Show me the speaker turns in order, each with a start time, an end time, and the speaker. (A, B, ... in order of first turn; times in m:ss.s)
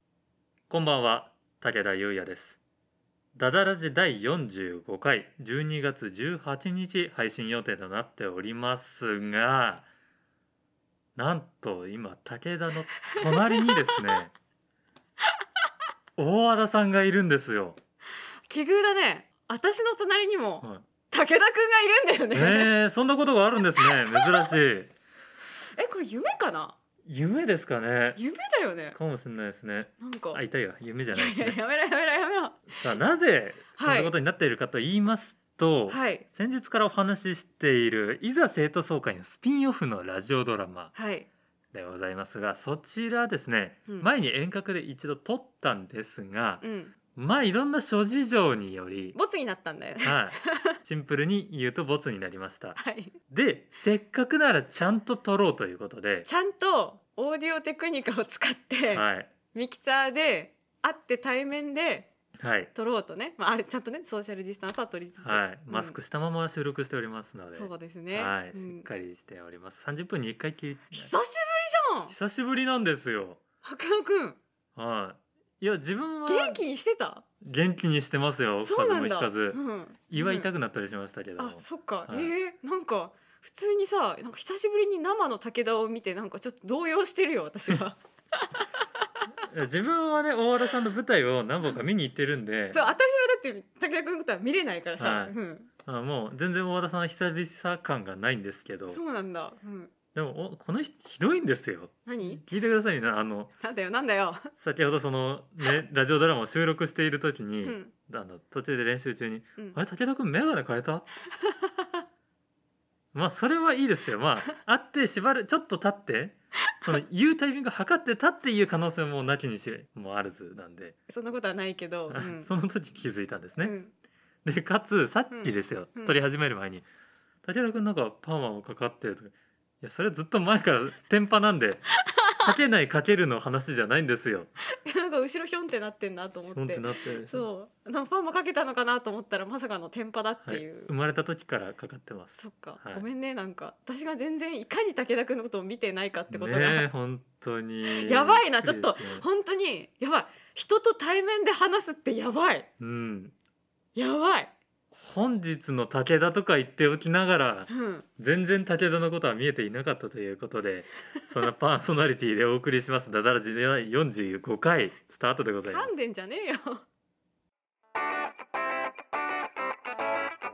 0:00.7-0:02.6 A
0:03.3-0:09.9 A
0:11.2-0:14.3 A
0:13.1-0:14.0 B
0:16.2-0:17.8 A
0:18.5-0:22.7 B
0:22.3-0:24.9 A
0:23.8-0:24.5 B
0:25.8-0:26.7 B
0:27.0-0:28.2 A
0:28.2-0:29.0 B
0:28.9-0:31.6 A
0:30.0-0:30.4 B
0:31.1-0:32.9 B
0:32.7-0:40.9 A
0:33.8-0:34.1 B
0:35.9-0:36.2 B
0:40.9-0:41.3 B
0:41.7-0:46.6 A
0:46.6-0:46.9 B
0:47.1-0:49.2 A
0:49.1-0:50.8 B
0:50.0-0:52.8 A
0:52.8-0:53.1 B
0:53.3-0:56.3 A
0:56.2-1:02.1 B
0:58.9-0:59.3 A
1:02.4-1:02.7 A
1:02.7-1:06.0 B
1:05.2-1:11.1 A
1:07.5-1:08.8 B
1:10.9-1:12.1 B
1:12.1-1:13.4 A
1:13.6-1:14.4 B
1:14.7-1:16.6 A
1:16.2-1:17.2 B
1:17.4-1:22.3 A
1:18.6-1:20.5 B
1:21.4-1:29.1 B
1:29.4-1:32.8 A
1:32.7-1:35.7 B
1:35.0-1:39.0 A
1:38.9-1:39.9 B
1:40.1-1:43.5 A
1:42.0-1:42.4 B
1:43.6-1:44.5 B
1:44.6-1:51.1 A
1:47.6-1:47.9 B
1:51.4-1:52.0 B
1:53.1-2:01.0 A
2:01.1-2:02.5 B
2:02.1-2:03.7 A
2:03.6-2:03.9 B
2:04.4-2:06.8 A
2:05.3-2:06.2 B
2:07.4-2:11.9 A
2:12.0-2:12.5 B
2:12.4-2:14.5 A
2:14.7-2:20.9 B
2:16.5-2:17.5 A
2:20.4-2:23.0 A
2:22.4-2:26.9 B
2:26.3-2:29.2 A
2:27.8-2:32.7 B
2:32.8-2:33.3 A
2:33.9-2:34.5 B
2:34.9-2:45.9 A
2:37.7-2:38.0 B
2:45.6-2:46.8 B